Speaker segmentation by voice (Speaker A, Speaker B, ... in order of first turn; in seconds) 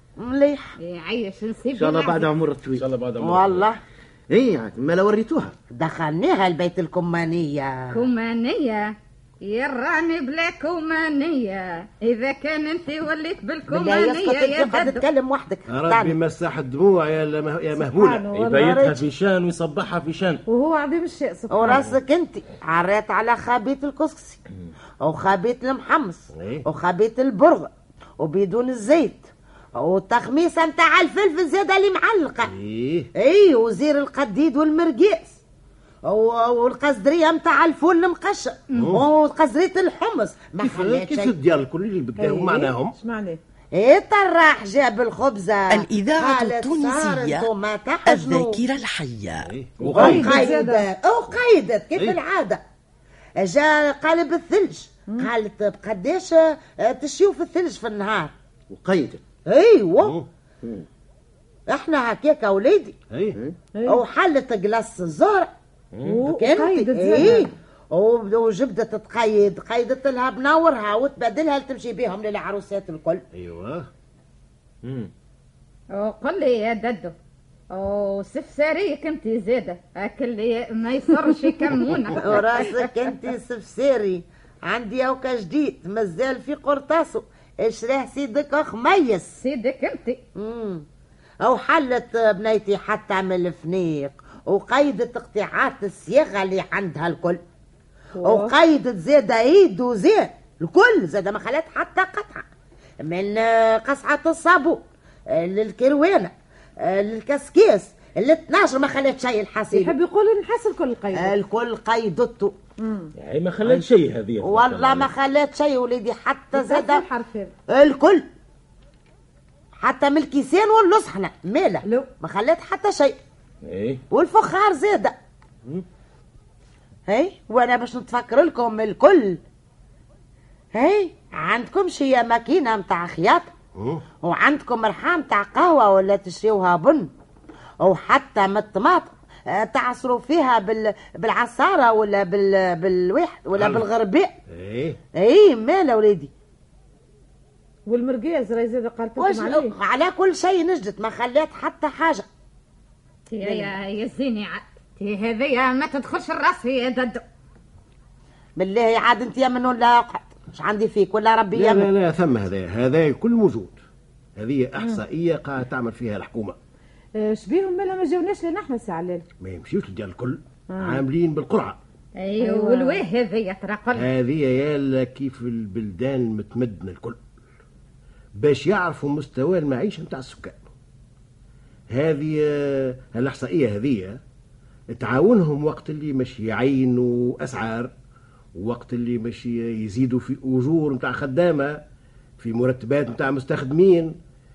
Speaker A: 0.2-0.8, 3.2-3.8, 5.7-8.0, 13.7-16.2, 21.5-24.4, 25.0-32.5, 33.2-35.4, 36.1-41.3, 43.7-48.6, 49.9-52.6, 53.4-58.3, 59.5-60.1, 61.7-63.0, 63.9-65.5, 66.2-73.2, 82.2-89.3, 90.4-90.8, 91.4-97.4, 98.2-102.4, 103.0-109.9, 111.1-112.5, 114.4-117.1, 117.7-118.2, 119.8-123.2, 124.1-125.1, 127.1-129.4, 130.8-133.5, 134.2-137.1, 137.8-144.3, 145.2-146.3, 149.2-152.2, 158.6-161.9
Speaker B: 0.8-2.2, 7.9-15.0, 75.9-77.1, 77.7-82.8, 89.3-90.2, 153.3-157.2, 172.2-174.1
Speaker C: 1.7-2.9, 4.3-5.5, 58.7-59.2
Speaker D: 2.7-3.7, 18.3-20.4, 21.6-21.9, 49.8-50.5, 74.8-75.1, 113.2-115.1, 123.6-124.0
Speaker E: 15.7-18.2, 26.3-26.6, 32.5-33.1, 38.7-39.0, 40.6-43.0, 49.4-50.2, 63.1-63.4, 73.3-73.9, 133.8-134.1, 143.6-143.9, 144.5-145.0, 161.5-163.8, 164.4-166.6, 169.4-171.8, 173.9-177.2, 178.4-180.7, 181.9-184.2, 184.9-187.9, 188.6-191.8, 192.4-194.2
Speaker F: 17.8-19.0, 20.5-21.7, 42.2-43.4, 49.8-50.9, 63.8-64.0, 66.0-67.5, 98.2-98.5, 109.7-111.3, 112.8-113.1, 116.5-117.5, 121.8-122.1, 147.9-149.7, 153.4-153.8, 167.2-169.2, 170.7-171.0, 172.4-173.0
Speaker G: 45.7-47.5, 48.1-49.5